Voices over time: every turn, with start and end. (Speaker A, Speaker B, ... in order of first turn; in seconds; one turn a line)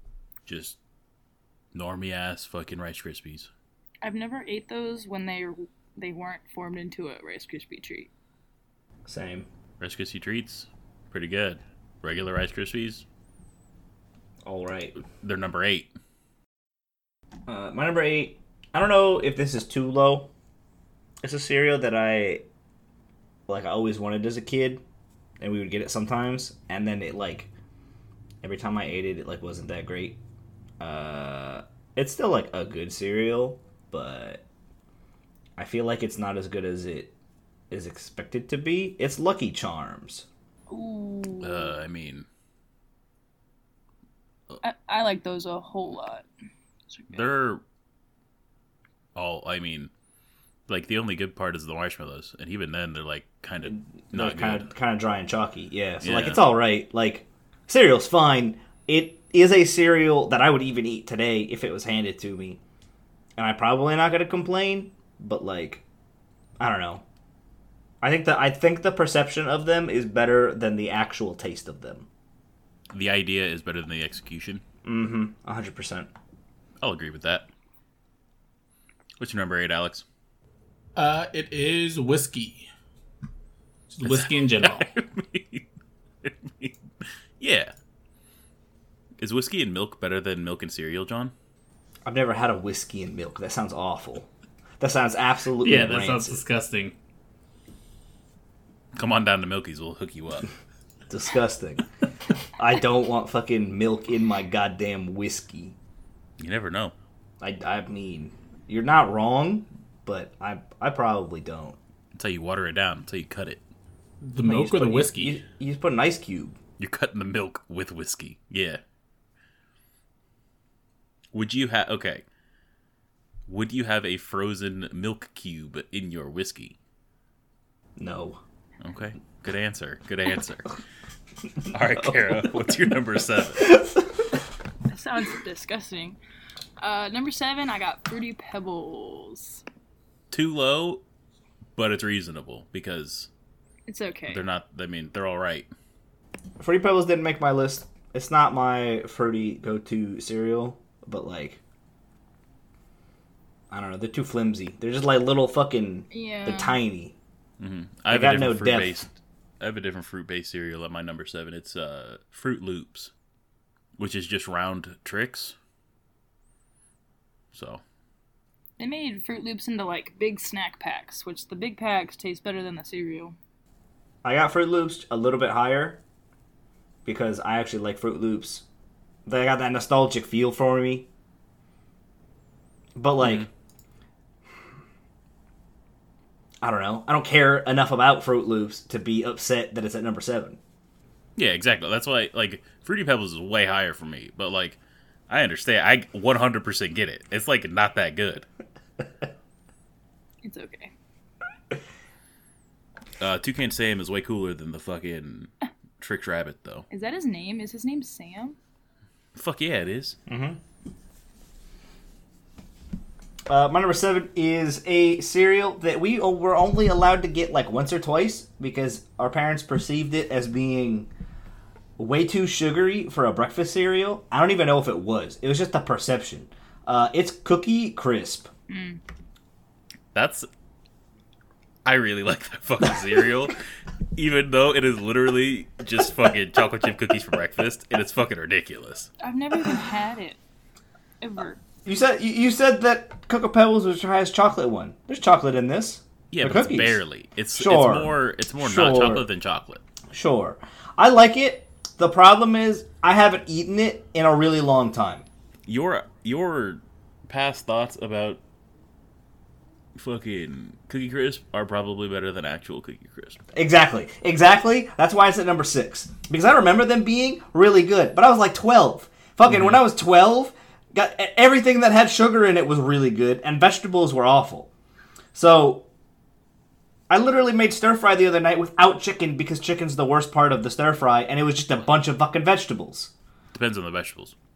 Speaker A: 0.5-0.8
Speaker A: 1.7-3.5
Speaker B: 4.0-8.1
Speaker C: 9.1-9.5
Speaker A: 9.8-13.0
Speaker C: 14.4-15.0
Speaker A: 15.1-15.9
Speaker C: 17.5-20.3
Speaker C: 21.2-22.4
Speaker C: 23.5-24.8
Speaker C: 25.4-27.5
Speaker C: 28.4-30.2
Speaker C: 30.8-34.4
Speaker C: 35.6-37.1
Speaker C: 37.7-40.3
Speaker B: 40.7-41.8
Speaker A: 41.4-42.3
Speaker B: 44.6-46.3
Speaker B: 46.9-47.3
Speaker A: 47.1-47.6
Speaker A: 49.1-49.9
Speaker A: 50.7-54.7
Speaker C: 53.7-62.6
Speaker A: 56.0-56.4
Speaker C: 63.4-65.8
Speaker C: 66.6-67.0
Speaker C: 68.0-72.1
Speaker A: 72.9-74.6
Speaker C: 74.8-76.1
Speaker A: 76.8-77.5
Speaker A: 79.2-80.0
Speaker D: 81.0-82.7
Speaker D: 83.9-84.9
Speaker A: 84.0-85.7
Speaker A: 86.2-87.7
Speaker A: 89.2-91.3
Speaker C: 92.1-94.3
Speaker C: 94.8-96.4
Speaker D: 95.6-96.9
Speaker A: 98.9-100.5
Speaker C: 101.1-101.9
Speaker C: 102.6-105.8
Speaker A: 106.4-106.9
Speaker C: 107.4-111.8
Speaker A: 112.1-113.6
Speaker D: 114.2-115.4
Speaker C: 114.4-116.6
Speaker A: 116.8-118.8
Speaker A: 121.3-122.2
Speaker A: 123.5-126.8
Speaker C: 128.0-128.4
Speaker A: 128.8-130.7
Speaker A: 131.7-133.7
Speaker C: 133.6-133.9
Speaker B: 134.9-136.2
Speaker B: 136.8-139.6
Speaker A: 140.3-141.0
Speaker A: 141.8-143.3
Speaker B: 143.9-144.4
Speaker A: 144.3-145.7
Speaker C: 146.6-151.6
Speaker C: 153.7-157.2
Speaker B: 156.1-156.8
Speaker A: 157.6-163.1
Speaker C: 158.1-159.0
Speaker A: 164.0-165.6
Speaker A: 167.5-167.8
Speaker B: 168.8-173.4
Speaker C: 174.2-176.0
Speaker C: 177.1-178.6
Speaker C: 179.3-181.1
Speaker C: 183.0-183.5
Speaker A: 183.2-183.5
Speaker C: 186.6-190.6
Speaker A: 191.4-198.5
Speaker B: 200.4-200.9
Speaker A: 203.2-206.9
Speaker B: 206.9-208.6
Speaker A: 209.3-210.2
Speaker C: 210.3-210.6
Speaker C: 213.5-221.1
Speaker C: 222.0-228.5
Speaker B: 228.7-229.0
Speaker A: 230.1-230.5
Speaker A: 231.8-233.6
Speaker A: 234.2-239.1
Speaker B: 239.2-240.4
Speaker B: 241.2-241.6
Speaker C: 241.8-247.0
Speaker A: 246.3-249.8
Speaker C: 247.6-249.2
Speaker C: 250.1-255.2
Speaker A: 255.7-258.4
Speaker A: 259.9-263.4
Speaker C: 263.5-274.7
Speaker A: 269.5-269.8
Speaker C: 275.3-275.9
Speaker C: 277.1-283.1
Speaker A: 283.5-284.3